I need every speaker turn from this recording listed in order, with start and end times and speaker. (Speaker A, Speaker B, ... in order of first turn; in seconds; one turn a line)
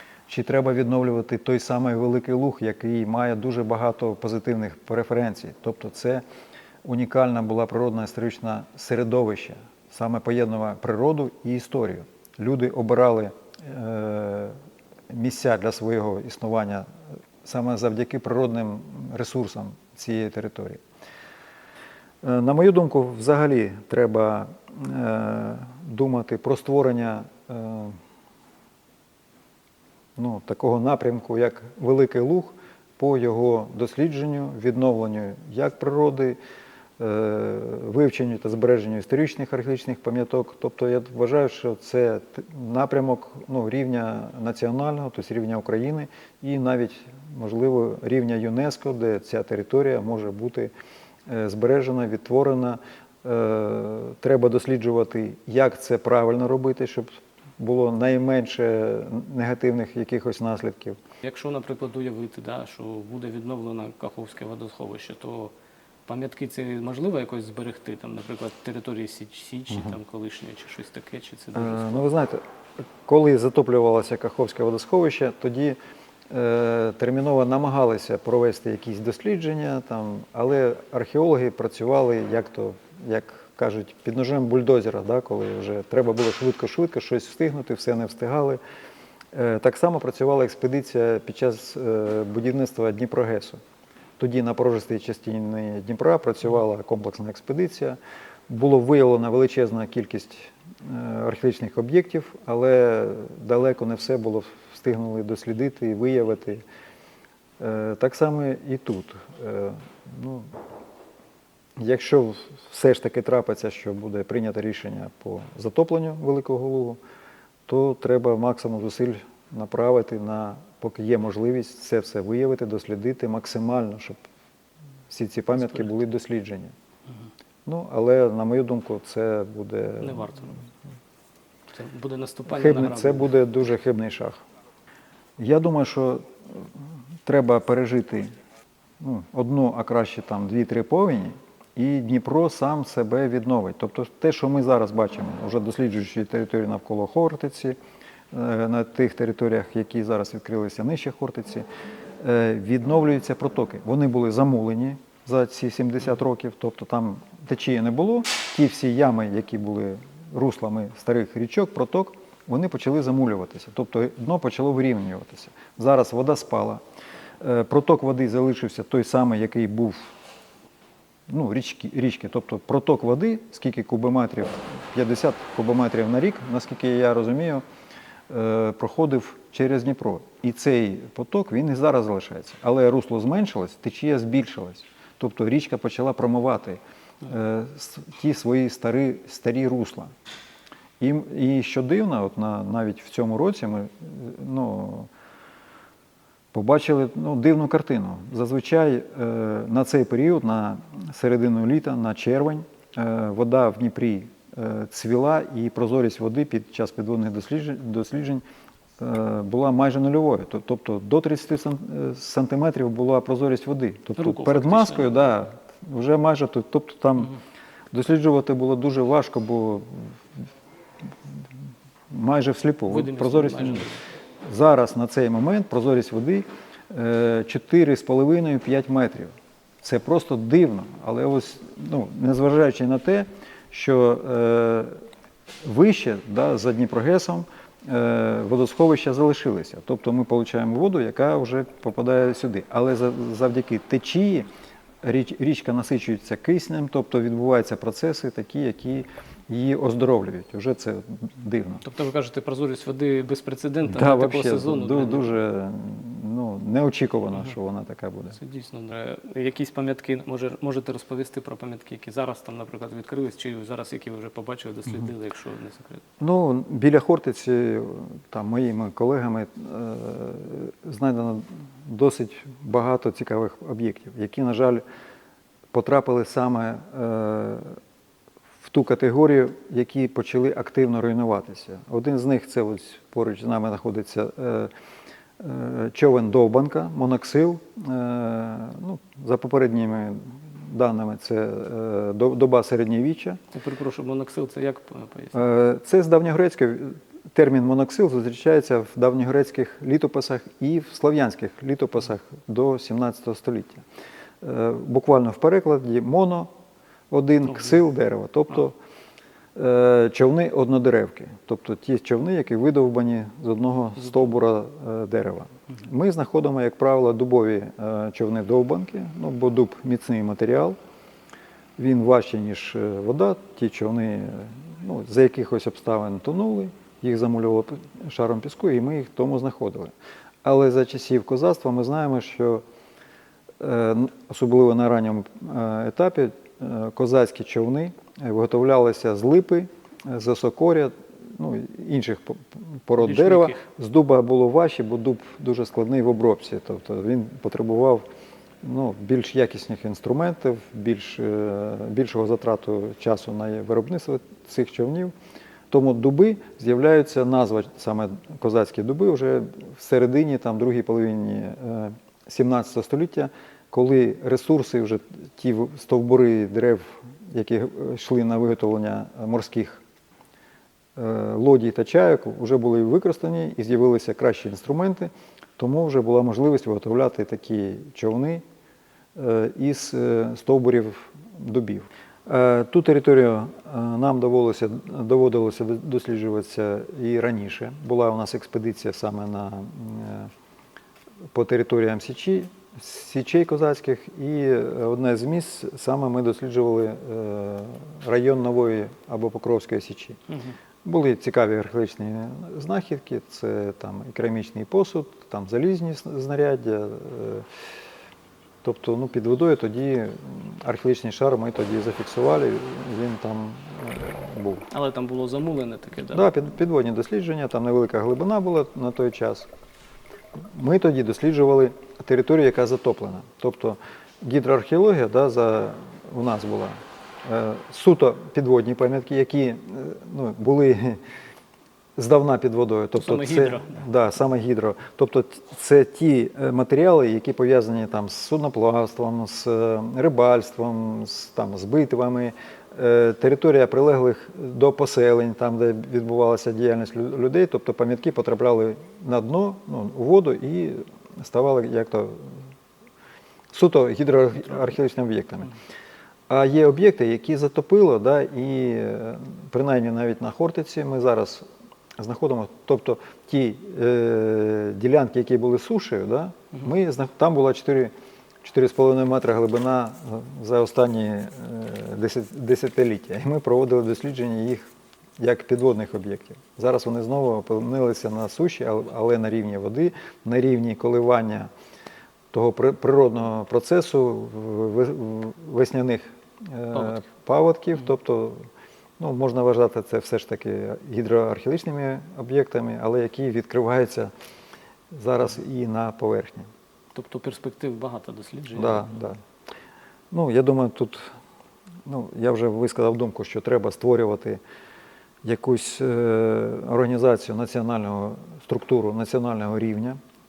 Speaker A: 0.3-6.2
Speaker A: 6.8-14.6
Speaker A: 15.1-16.9
Speaker A: 17.4-20.8
Speaker A: 22.2-28.0
Speaker A: 30.2-36.4
Speaker A: 37.0-50.7
Speaker A: 51.3-61.0
Speaker B: 61.2-65.5
Speaker B: 66.1-72.1
Speaker A: 71.5-72.4
Speaker A: 73.0-75.8
Speaker A: 76.3-88.6
Speaker A: 89.3-93.6
Speaker A: 94.2-98.0
Speaker A: 98.5-106.6
Speaker A: 107.6-110.5
Speaker A: 111.8-117.0
Speaker A: 117.7-124.2
Speaker A: 125.1-126.7
Speaker A: 127.7-130.4
Speaker B: 130.0-130.6
Speaker B: 131.7-133.3
Speaker A: 132.5-134.4
Speaker A: 135.4-136.7
Speaker A: 137.2-138.3
Speaker A: 139.0-147.8
Speaker A: 148.3-151.7
Speaker A: 152.2-166.8
Speaker A: 167.4-170.1
Speaker A: 171.3-177.6
Speaker A: 178.3-190.1
Speaker A: 191.0-195.1
Speaker A: 196.5-208.4
Speaker A: 209.0-217.4
Speaker B: 214.2-215.3
Speaker A: 217.9-220.1
Speaker A: 222.1-223.9
Speaker B: 222.9-224.0
Speaker A: 224.4-235.0
Speaker A: 235.6-244.5
Speaker A: 245.0-251.8
Speaker B: 251.8-255.3
Speaker A: 253.9-258.4
Speaker B: 258.4-266.0
Speaker A: 266.2-274.8
Speaker A: 275.7-277.8
Speaker A: 278.6-284.7
Speaker A: 285.4-293.4
Speaker B: 293.5-295.4
Speaker A: 295.3-303.8
Speaker A: 304.4-306.5
Speaker A: 307.1-308.8
Speaker A: 309.6-320.8
Speaker A: 321.8-329.9
Speaker A: 330.4-332.6
Speaker A: 333.6-348.0
Speaker B: 343.0-343.6
Speaker A: 348.6-355.1
Speaker A: 355.7-369.8
Speaker A: 371.0-378.4
Speaker A: 379.2-390.3
Speaker A: 391.3-400.2
Speaker A: 400.8-407.4
Speaker A: 408.6-414.7
Speaker B: 414.7-416.3
Speaker A: 416.1-419.5
Speaker A: 420.5-431.0
Speaker A: 432.0-452.4
Speaker B: 433.0-433.8
Speaker A: 453.5-455.5
Speaker A: 456.3-461.4
Speaker A: 462.0-467.9
Speaker A: 468.4-481.5
Speaker A: 482.3-488.5
Speaker A: 489.0-494.1
Speaker A: 494.9-496.5
Speaker B: 496.9-498.9
Speaker A: 498.6-499.2
Speaker A: 500.1-501.1
Speaker A: 501.9-504.4
Speaker A: 505.2-510.0